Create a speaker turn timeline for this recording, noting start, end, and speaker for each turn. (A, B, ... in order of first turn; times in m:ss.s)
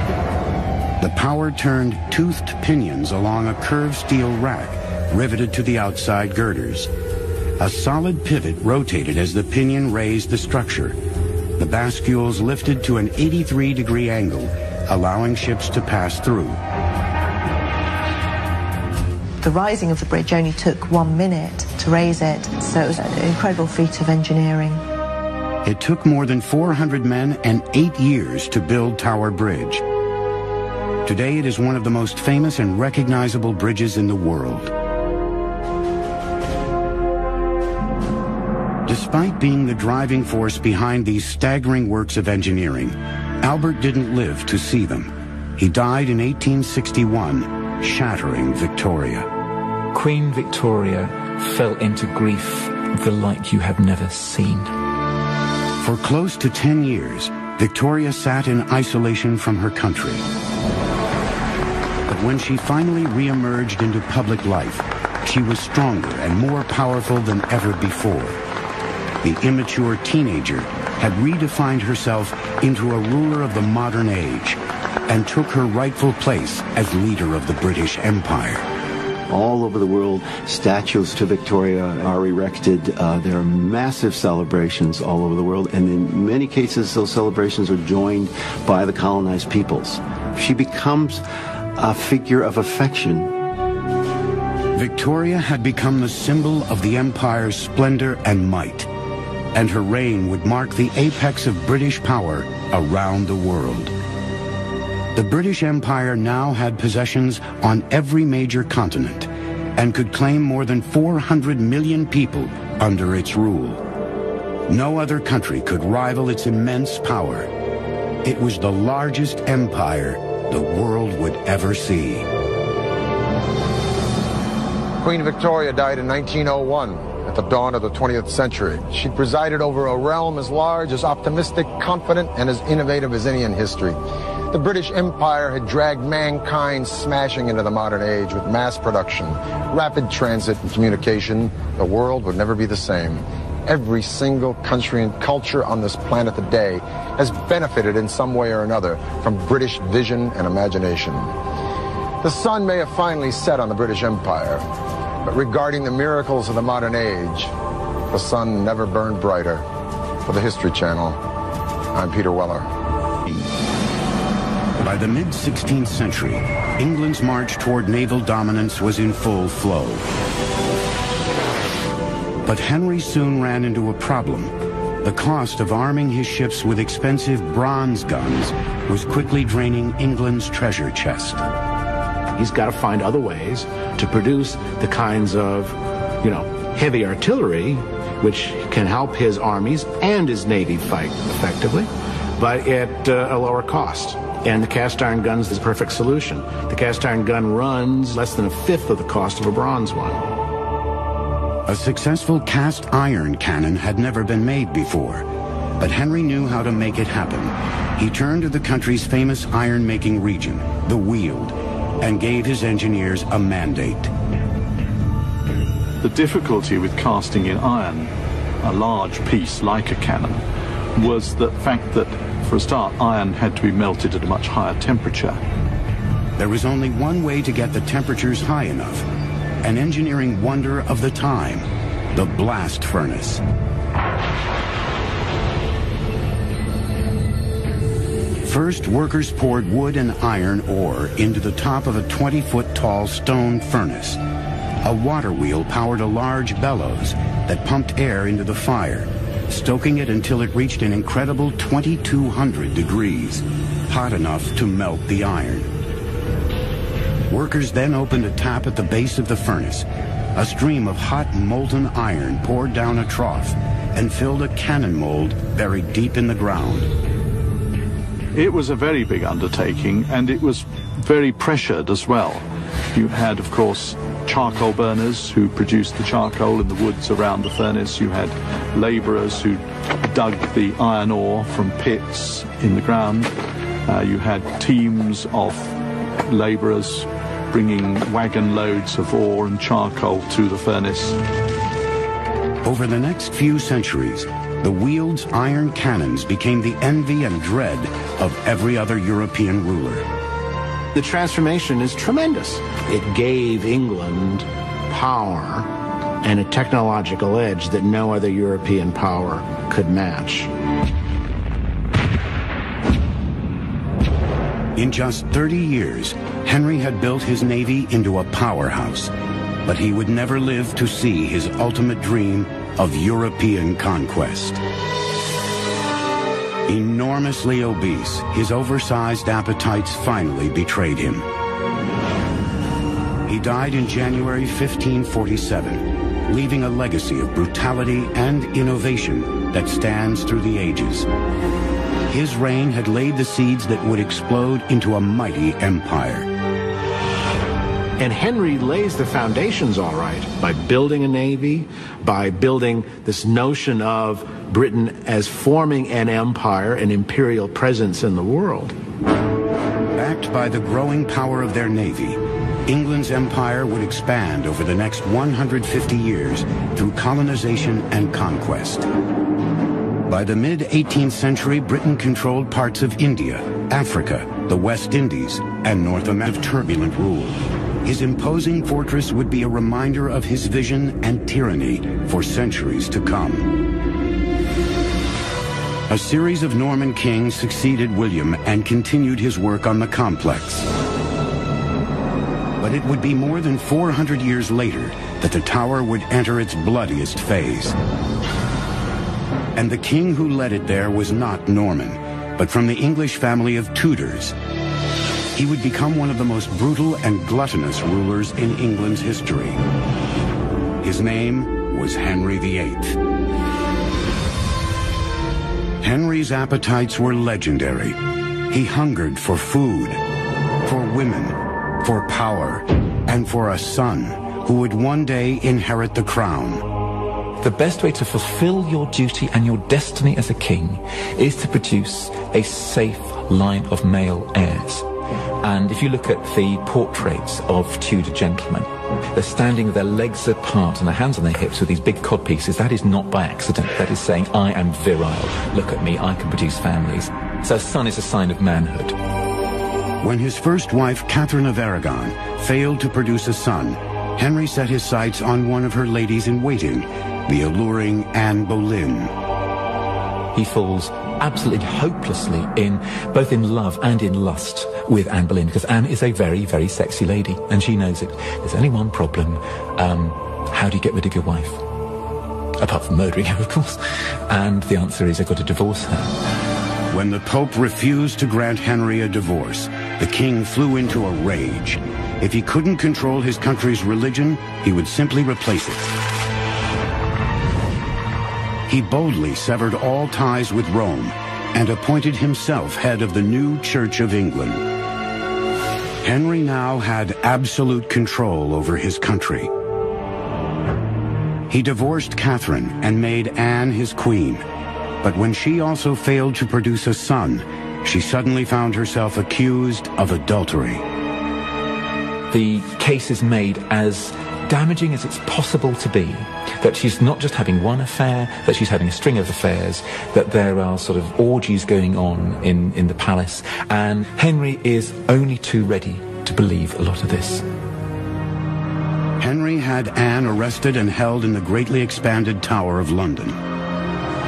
0:01.0-0:06.9 A
0:07.6-0:11.0 A
0:11.6-0:16.6 A
0:19.4-0:24.8 B
0:25.6-0:29.8 A
0:31.0-0:34.7 A
0:38.9-0:49.3 A
0:49.9-0:54.7 C
0:55.8-1:00.2 A
1:02.1-1:08.4 A
1:09.2-1:18.6 A
1:19.3-1:31.2 D
1:31.8-1:33.3 D
1:34.7-1:38.9 A
1:39.5-1:43.9 A
1:45.1-1:53.8 A
1:54.7-1:57.5 A
1:58.2-2:02.2 A
2:05.0-2:14.0 E
2:14.5-2:31.3 E
2:32.2-2:34.6 E
2:35.2-2:37.5 E
2:38.1-2:39.6 E
2:40.2-2:41.2 E
2:41.9-2:42.7 E
2:44.8-2:50.1 A
2:52.4-3:01.4 A
3:02.4-3:20.2 F
3:21.7-3:25.3 A
3:25.8-3:34.1 A
3:36.0-3:40.4 G
3:41.0-3:45.4 G
3:46.4-3:49.0 A
3:49.6-3:53.4 A
3:58.4-4:04.2 A
4:04.8-4:15.7 A
4:17.3-4:26.9 A
4:28.3-4:43.3 G
4:43.8-4:51.2 G
4:52.6-5:00.0 A
5:00.9-5:10.5 F
5:14.8-5:19.1 A
5:19.6-5:24.6 A
5:26.7-5:31.2 A
5:33.3-5:41.1 A
5:42.1-5:46.3 A
5:48.0-5:58.7 F
6:00.0-6:08.8 A
6:10.1-6:23.5 A
6:25.9-6:30.7 A
6:32.6-6:37.8 A
6:39.6-6:44.3 A
6:45.3-6:49.6 A
6:50.8-6:53.0 A
6:55.8-6:58.0 A
6:58.5-7:00.0 A
7:00.6-7:06.6 A
7:07.4-7:14.8 C
7:15.4-7:29.0 C
7:30.0-7:39.1 A
7:40.3-7:51.6 C
7:52.6-7:56.2 C
7:56.9-8:05.9 A
8:08.7-8:14.6 A
8:16.0-8:19.5 A
8:21.5-8:24.4 A
8:25.0-8:30.8 A
8:32.3-8:47.4 C
8:49.2-8:53.4 A